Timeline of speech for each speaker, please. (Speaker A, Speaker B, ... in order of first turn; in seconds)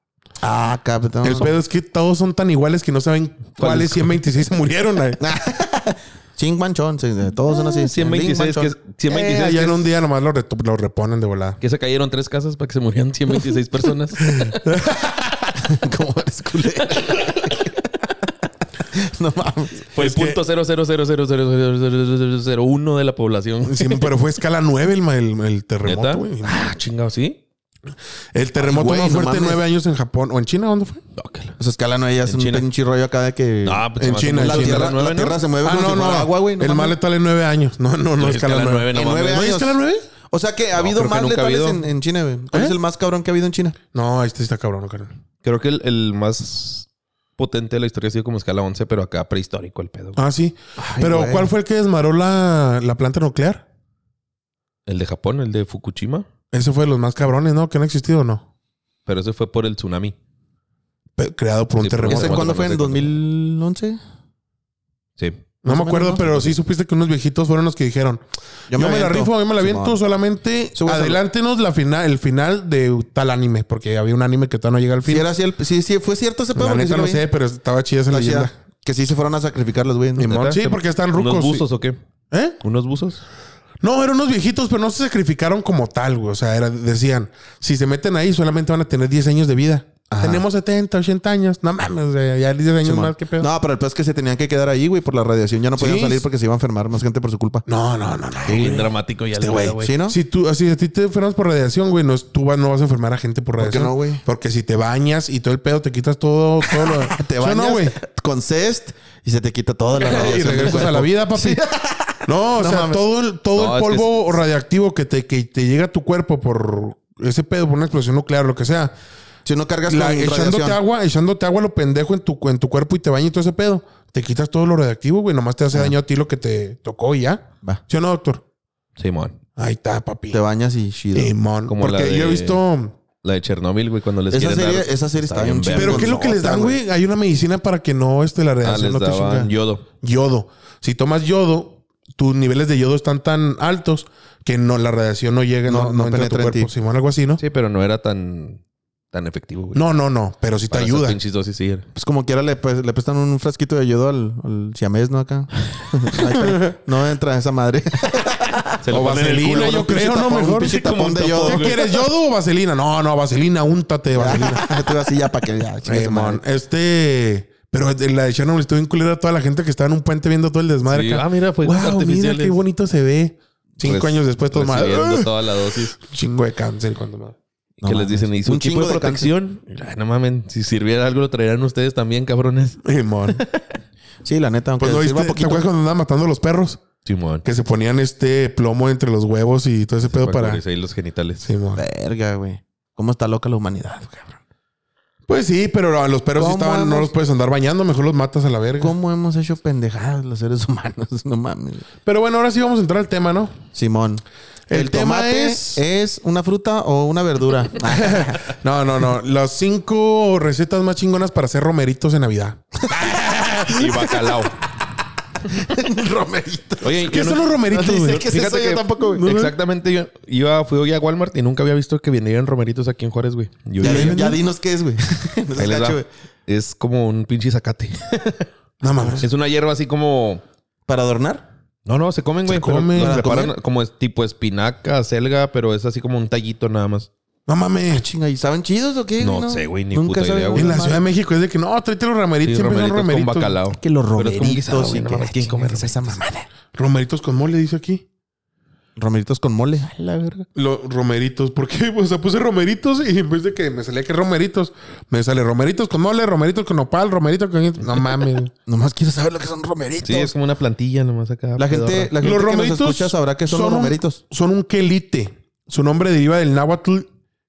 Speaker A: 0.4-1.5, 5.2-8.7, 15.6-17.9, 18.9-19.9, 28.6-29.6, 31.6-37.0, 38.9-39.8, 40.3-43.8, 50.8-51.5, 62.0-64.0, 65.7-66.5, 68.7-70.0, 70.7-71.2, 75.0-77.2, 78.1-80.3, 90.1-90.4, 92.8-97.6, 98.5-98.8, 99.8-100.2, 103.6-104.2, 106.6-113.0, 119.4-120.8, 130.3-131.3, 134.3-136.8, 145.7-146.7, 151.9-158.8, 159.4-161.8, 164.1-166.4, 177.8-179.3, 184.2-185.7, 191.7-194.4, 196.3-197.1, 198.8-201.8, 203.7-208.4, 215.5-217.1, 217.7-219.3, 223.8-226.1, 230.9-231.4, 233.0-233.5, 237.9-241.0, 243.7-246.5, 249.0-250.4, 258.6-260.3, 261.6-264.2
Speaker B: 1.2-5.2, 9.1-11.6, 14.3-15.5, 20.0-20.4, 23.6-26.7, 28.3-31.0, 34.0-34.9, 35.6-40.0, 43.9-45.1, 50.1-53.6, 56.5-58.5, 61.2-62.5, 65.6-68.2, 68.7-75.3, 76.5-78.5, 80.2-81.6, 82.3-82.6, 83.8-93.5, 95.8-96.2, 97.7-108.0, 110.0-111.6, 112.2-118.9, 119.9-128.4, 129.6-130.4, 131.1-132.9, 135.7-139.5, 140.0-147.4, 149.7-151.2, 156.2-156.7, 158.9-160.8, 161.4-164.8, 165.8-175.3, 175.9-177.3, 182.8-183.4, 184.8-186.8, 187.4-190.6, 191.4-191.8, 195.3-198.9, 202.0-203.5, 204.7-205.8, 207.9-214.1, 217.0-218.3, 219.1-219.6, 223.8-224.4, 228.8-229.3, 232.4-233.3, 237.5-238.0, 240.5-243.6, 246.7-248.0, 250.5-258.5, 262.2-267.1
Speaker C: 3.6-4.1, 7.8-9.8, 11.6-14.6, 19.9-24.1, 25.9-27.4, 31.1-31.6, 32.3-32.7, 33.6-35.4, 38.2-39.5, 40.8-41.8, 45.4-50.2, 54.9-56.3, 59.0-60.1, 61.8-63.1, 80.2-82.0, 82.6-83.2, 98.5-100.0, 113.5-114.2, 129.0-129.3, 131.7-132.6, 133.2-136.2, 138.6-139.8, 147.4-148.6, 149.1-149.8, 150.7-151.8, 158.8-159.9, 160.6-161.8, 170.9-172.6, 173.8-175.9, 177.8-182.8, 187.0-187.4, 190.1-191.5, 213.7-214.5, 216.8-224.2, 225.6-228.5, 229.1-230.4, 231.8-237.1, 239.2-240.9, 242.4-246.2, 260.0-262.1